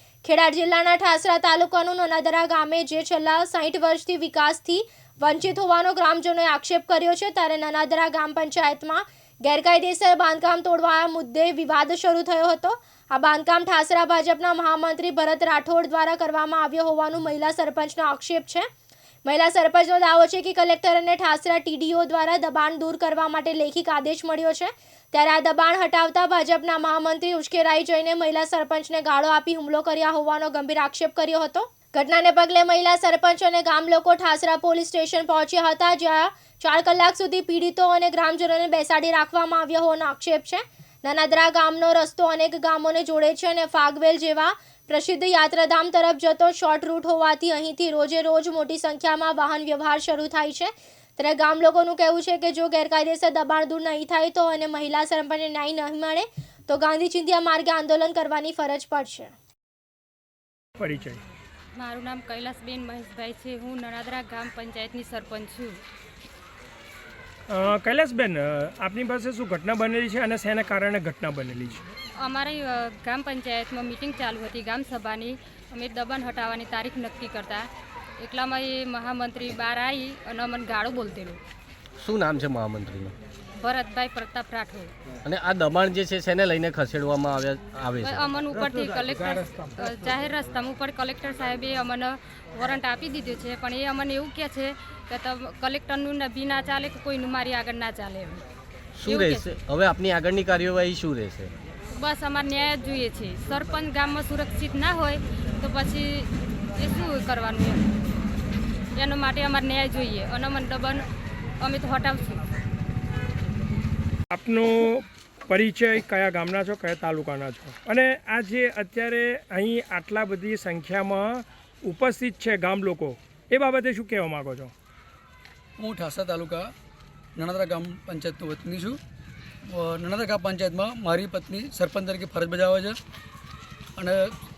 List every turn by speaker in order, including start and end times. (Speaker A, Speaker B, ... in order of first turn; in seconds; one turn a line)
Speaker A: 0.2-18.7
Speaker A: 19.2-59.3
Speaker B: 60.8-61.2
Speaker C: 61.7-65.8
Speaker B: 67.5-71.8
Speaker C: 72.2-77.7
Speaker C: 78.2-81.4
Speaker D: 82.0-83.1
Speaker C: 83.6-84.9
Speaker D: 85.2-88.3
Speaker C: 88.0-98.4
Speaker D: 99.0-101.5
Speaker C: 99.0-99.5
Speaker C: 102.0-107.8
Speaker C: 109.0-111.0
Speaker C: 111.6-112.4
Speaker B: 114.3-124.7
Speaker E: 125.8-126.7
Speaker E: 127.4-129.0
Speaker E: 129.7-133.0
Speaker E: 134.0-134.3